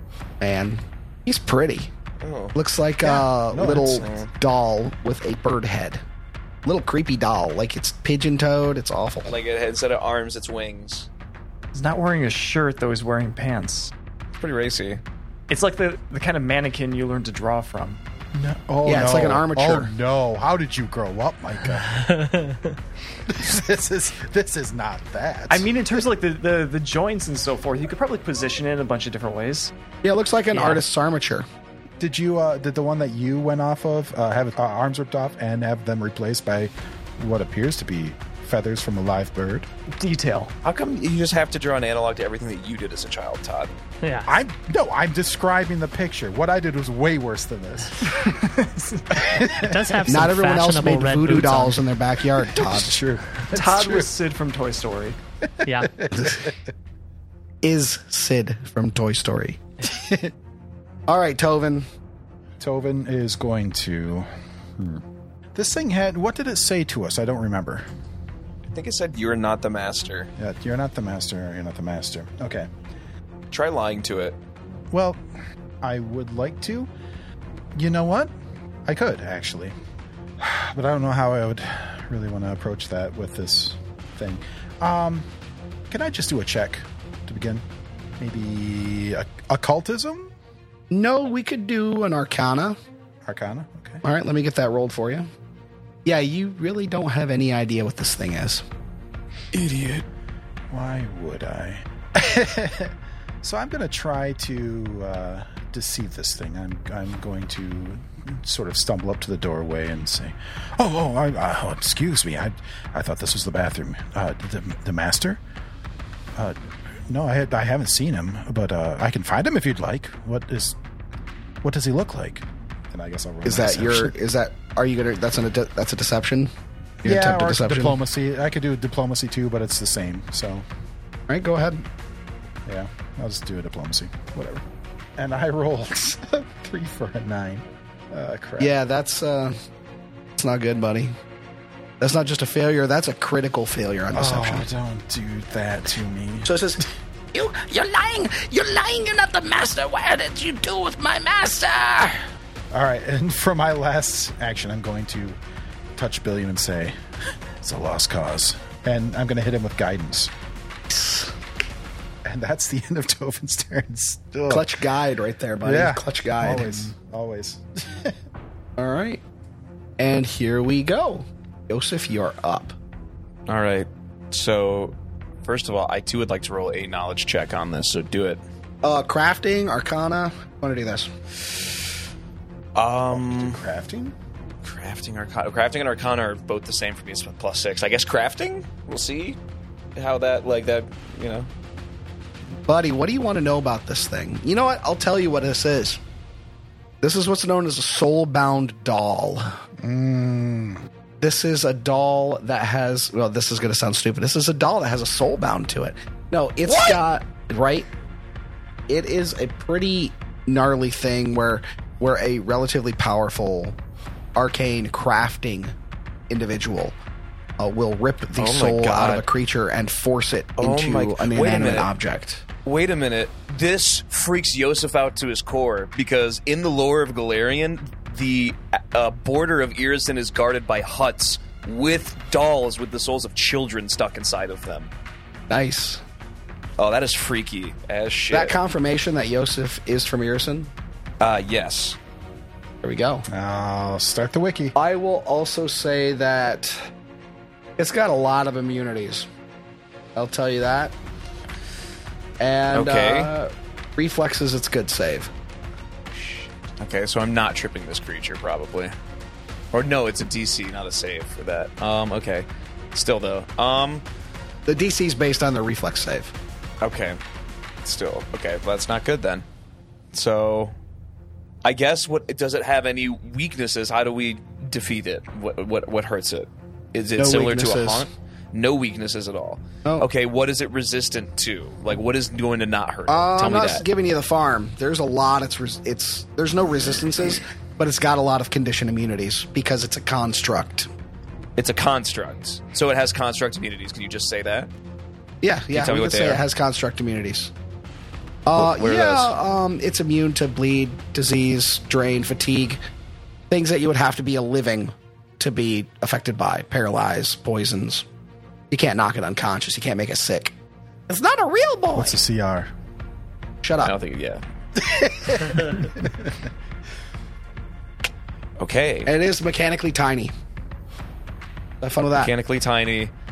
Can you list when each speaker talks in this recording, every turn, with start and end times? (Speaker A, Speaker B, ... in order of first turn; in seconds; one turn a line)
Speaker A: 0.4-1.9
Speaker B: 2.2-2.6
Speaker A: 2.6-6.0
Speaker C: 3.0-4.2
Speaker B: 4.0-4.3
Speaker A: 6.7-9.4
Speaker B: 9.3-11.1
Speaker D: 11.7-13.9
Speaker B: 14.4-15.0
Speaker D: 15.5-18.0
Speaker C: 18.3-22.0
Speaker A: 18.9-19.9
Speaker E: 21.9-22.8
Speaker C: 23.3-25.7
Speaker D: 25.5-29.7
Speaker A: 30.0-31.5
Speaker C: 32.0-39.7
Speaker D: 40.0-40.5
Speaker B: 40.6-43.7
Speaker E: 44.0-44.3
Speaker C: 44.3-48.2
Speaker D: 48.1-49.2
Speaker C: 49.1-50.1
Speaker E: 49.4-51.9
Speaker A: 50.1-52.9
Speaker C: 52.4-54.1
Speaker D: 53.5-55.2
Speaker E: 55.6-55.9
Speaker C: 55.8-56.6
Speaker A: 56.1-56.4
Speaker A: 57.6-59.6
Speaker C: 59.8-60.3
Speaker A: 61.1-61.9
Speaker C: 62.6-65.0
Speaker C: 65.5-67.8
Speaker B: 68.7-70.3
Speaker C: 70.4-72.7
Speaker B: 73.5-74.4
Speaker C: 74.9-75.2
Speaker C: 75.8-76.9
Speaker C: 77.8-78.3
Speaker C: 78.9-79.8
Speaker C: 80.4-85.3
Speaker C: 85.9-87.6
Speaker C: 88.2-90.3
Speaker A: 90.9-92.8
Speaker C: 93.2-94.0
Speaker A: 94.0-95.3
Speaker A: 96.0-98.6
Speaker B: 99.5-100.0
Speaker C: 100.7-115.4
Speaker C: 116.4-120.8
Speaker C: 121.6-124.2
Speaker A: 123.5-126.5
Speaker A: 127.0-128.0
Speaker C: 127.0-130.7
Speaker A: 131.3-131.8
Speaker C: 132.7-138.7
Speaker A: 138.6-139.6
Speaker A: 140.4-141.2
Speaker A: 142.0-144.7
Speaker C: 144.1-146.9
Speaker A: 146.4-152.2
Speaker C: 152.7-155.4
Speaker C: 156.0-157.0
Speaker C: 157.6-160.3
Speaker A: 160.9-161.3
Speaker C: 162.2-164.7
Speaker A: 164.5-166.9
Speaker C: 165.6-168.2
Speaker A: 168.8-169.2
Speaker A: 170.0-172.7
Speaker B: 173.5-178.4
Speaker A: 178.8-181.1
Speaker B: 182.8-183.6
Speaker C: 183.1-184.2
Speaker B: 184.6-189.4
Speaker B: 190.0-191.5
Speaker A: 192.7-196.0
Speaker A: 197.0-199.6
Speaker C: 199.8-200.9
Speaker A: 201.2-207.9
Speaker B: 206.7-207.0
Speaker A: 208.9-213.8
Speaker A: 214.3-215.8
Speaker A: 216.3-217.0
Speaker A: 217.6-222.4
Speaker B: 218.4-219.2
Speaker B: 220.6-221.9
Speaker B: 222.7-234.9
Speaker A: 235.5-236.0
Speaker B: 236.8-238.6
Speaker A: 238.3-240.7
Speaker B: 241.2-242.0
Speaker A: 242.8-243.3
Speaker C: 243.3-244.7
Speaker A: 244.8-246.8
Speaker A: 247.8-249.3
Speaker A: 250.2-250.9
Speaker A: 252.4-255.3
Speaker B: 252.7-253.3
Speaker B: 256.1-258.9
Speaker B: 259.7-264.1
Speaker A: 264.7-266.3
Speaker B: 266.8-267.2
Speaker B: 267.8-269.5
Speaker B: 270.1-270.7
Speaker B: 271.6-283.9
Speaker A: 277.2-278.1
Speaker A: 283.1-290.9
Speaker B: 291.6-294.7
Speaker A: 295.4-297.5
Speaker B: 295.7-296.4
Speaker A: 298.5-302.8
Speaker B: 298.5-299.4
Speaker A: 303.5-308.1
Speaker A: 308.7-310.5
Speaker A: 311.1-312.2
Speaker C: 311.9-312.7
Speaker A: 313.6-313.9
Speaker B: 313.8-314.4
Speaker C: 314.8-316.5
Speaker B: 318.6-319.1
Speaker A: 319.1-320.3
Speaker A: 321.8-322.3
Speaker B: 322.1-323.1